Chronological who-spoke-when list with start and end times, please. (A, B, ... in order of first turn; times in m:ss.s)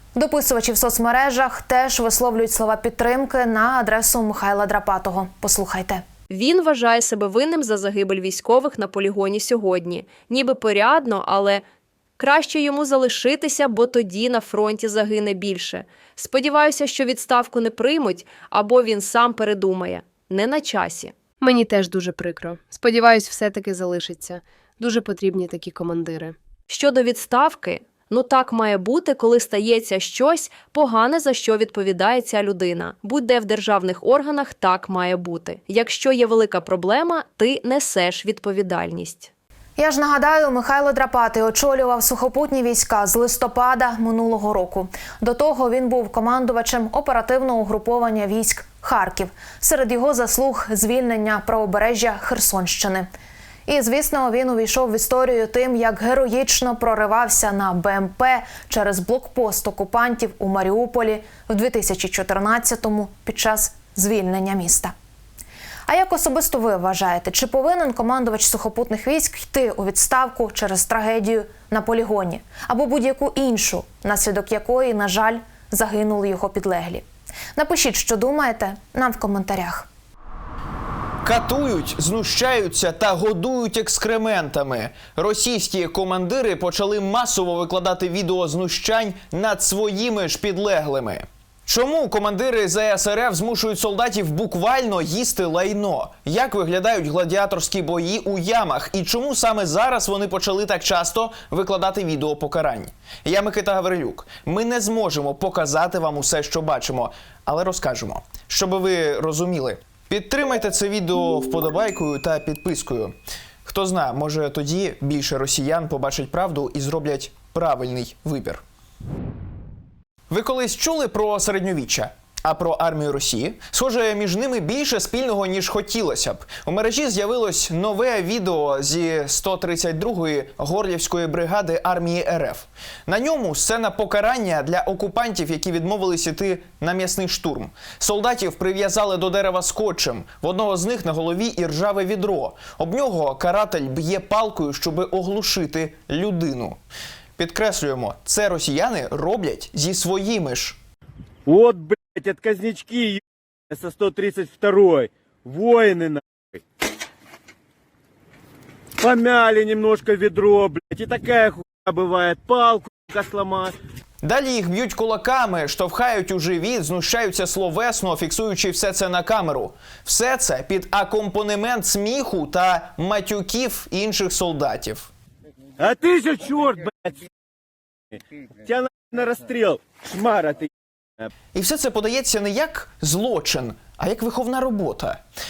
0:00.1-0:06.0 A
0:06.3-0:11.6 B
0:12.2-0:21.1 B
0:21.4-0:26.4 C
0:26.7-0:39.3 B
0:39.8-0:53.1 A
0:53.7-1:04.9 A
1:05.9-1:17.0 A
1:17.6-1:19.9 A
1:21.2-1:58.6 D
2:00.3-2:26.8 D
2:27.4-2:30.8 D
2:31.4-2:36.6 E
2:39.0-2:43.7 E
2:44.2-2:55.1 D
2:55.8-2:57.3 E
2:58.6-3:00.7 E
3:01.5-3:05.2 D